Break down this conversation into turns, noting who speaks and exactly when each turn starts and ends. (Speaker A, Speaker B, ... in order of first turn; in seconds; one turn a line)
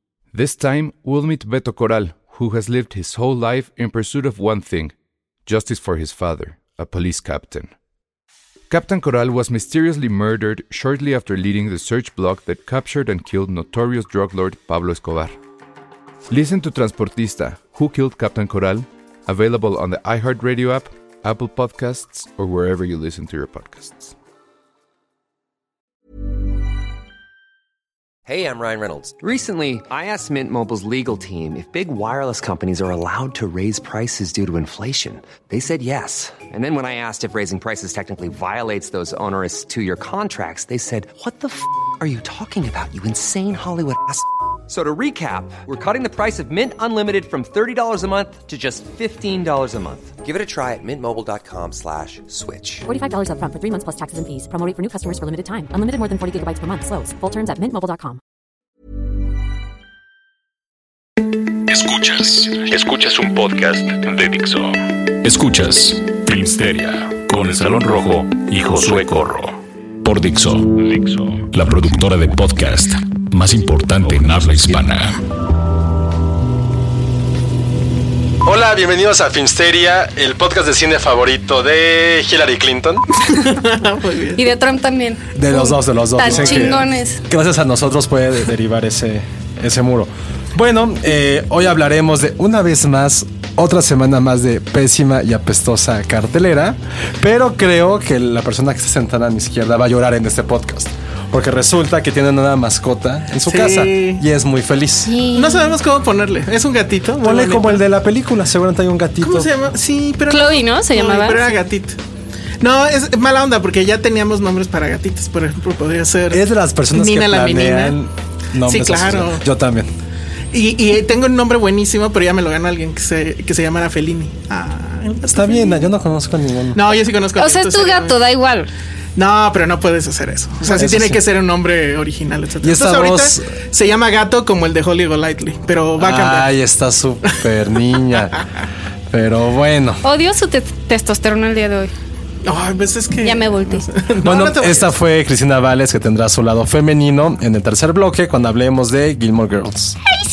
Speaker A: 0.3-4.9
Speaker A: 5.5-7.7
Speaker A: 8.7-15.3
Speaker A: 16.3-24.1
Speaker B: 28.2-52.9
Speaker C: 52.9-58.2
Speaker D: 61.7-75.2
Speaker E: 78.4-83.0
Speaker F: 83.3-84.4
Speaker G: 84.3-87.2
Speaker E: 85.3-105.1
Speaker F: 103.5-104.2
Speaker G: 105.0-105.8
Speaker F: 105.3-107.8
Speaker E: 107.2-109.5
Speaker F: 109.2-112.0
Speaker G: 110.3-111.5
Speaker F: 112.6-118.0
Speaker E: 116.3-119.9
Speaker F: 118.7-119.4
Speaker F: 120.5-125.9
Speaker E: 125.2-126.8
Speaker F: 126.7-128.2
Speaker G: 127.3-128.7
Speaker F: 129.2-136.5
Speaker E: 130.7-131.2
Speaker E: 132.6-133.5
Speaker E: 136.0-138.4
Speaker E: 139.1-140.0
Speaker G: 140.0-141.9
Speaker F: 142.4-144.9
Speaker G: 143.2-143.9
Speaker E: 144.2-150.0